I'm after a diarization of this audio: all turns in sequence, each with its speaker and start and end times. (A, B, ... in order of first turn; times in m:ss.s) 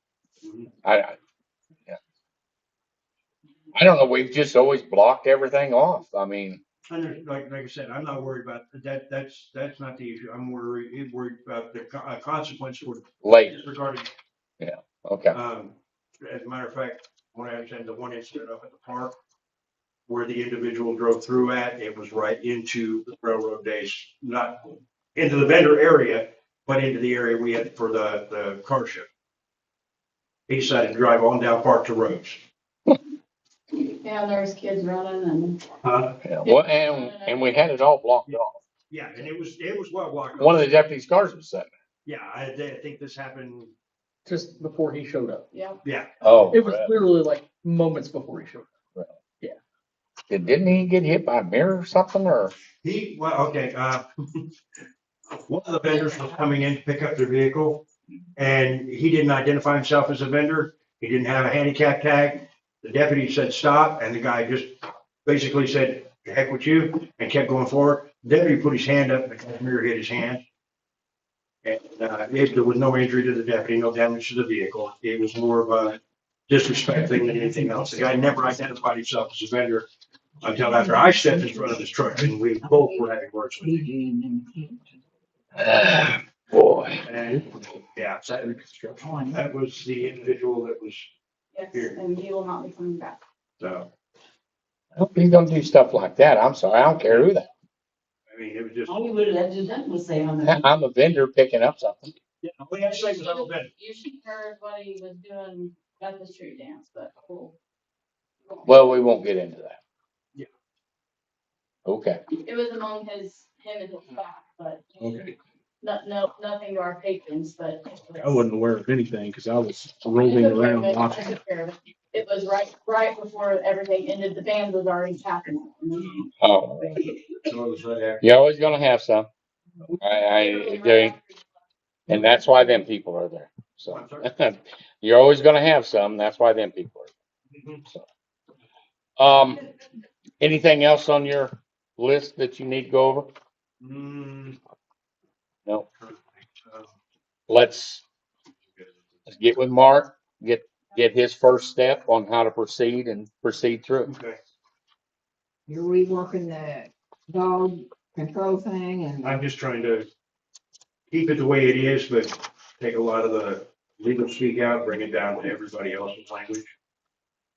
0:00.4-0:00.7 A
0:00.8-0:01.2 B
0:03.7-0:06.6 B
0:06.9-0:14.1 A
0:13.2-0:13.7 B
0:14.6-0:15.4 B
0:15.3-0:19.2 A
0:20.1-0:29.1 A
0:30.5-0:32.4 A
0:33.9-0:35.6 C
0:35.8-0:36.2 A
0:36.2-0:38.6 B
0:36.4-0:37.6 C
0:38.3-0:40.7 A
0:40.4-0:41.7 B
0:42.1-0:43.7 A
0:44.3-0:45.5 D
0:45.5-0:45.8 C
0:45.8-0:46.1 A
0:46.2-0:46.9 B
0:46.5-0:48.7 D
0:50.3-0:52.5 B
0:52.8-0:54.6 A
0:55.4-1:10.4 A
1:11.6-1:19.9 A
1:20.4-1:23.9 A
1:20.8-1:21.7 E
1:23.6-1:24.8 E
1:25.6-1:27.0 B
1:27.0-1:28.5 A
1:28.6-1:28.9 D
1:29.0-1:29.4 E
1:29.3-1:31.1 A
1:31.5-1:33.2 C
1:33.6-1:33.9 A
1:35.0-1:37.5 B
1:38.3-1:39.1 A
1:38.9-1:40.5 C
1:40.4-1:42.1 B
1:42.4-1:43.7 A
1:42.9-1:47.6 C
1:48.6-1:49.8 B
1:51.9-1:52.2 B
1:52.4-1:55.1 C
1:55.8-1:58.4 C
1:58.2-2:01.4 F
2:00.2-2:06.3 C
2:06.4-2:07.0 B
2:07.4-2:08.3 A
2:08.2-2:09.3 B
2:10.0-2:11.2 B
2:10.3-2:11.4 C
2:12.1-2:17.1 B
2:13.9-2:14.3 A
2:17.5-2:17.8 A
2:19.2-2:19.6 B
2:20.4-2:23.3 B
2:23.8-2:24.6 A
2:26.0-2:27.0 A
2:27.5-2:28.0 B
2:29.3-2:34.1 B
2:34.0-2:34.4 A
2:35.7-2:39.4 E
2:39.2-2:40.1 A
2:41.1-2:46.7 A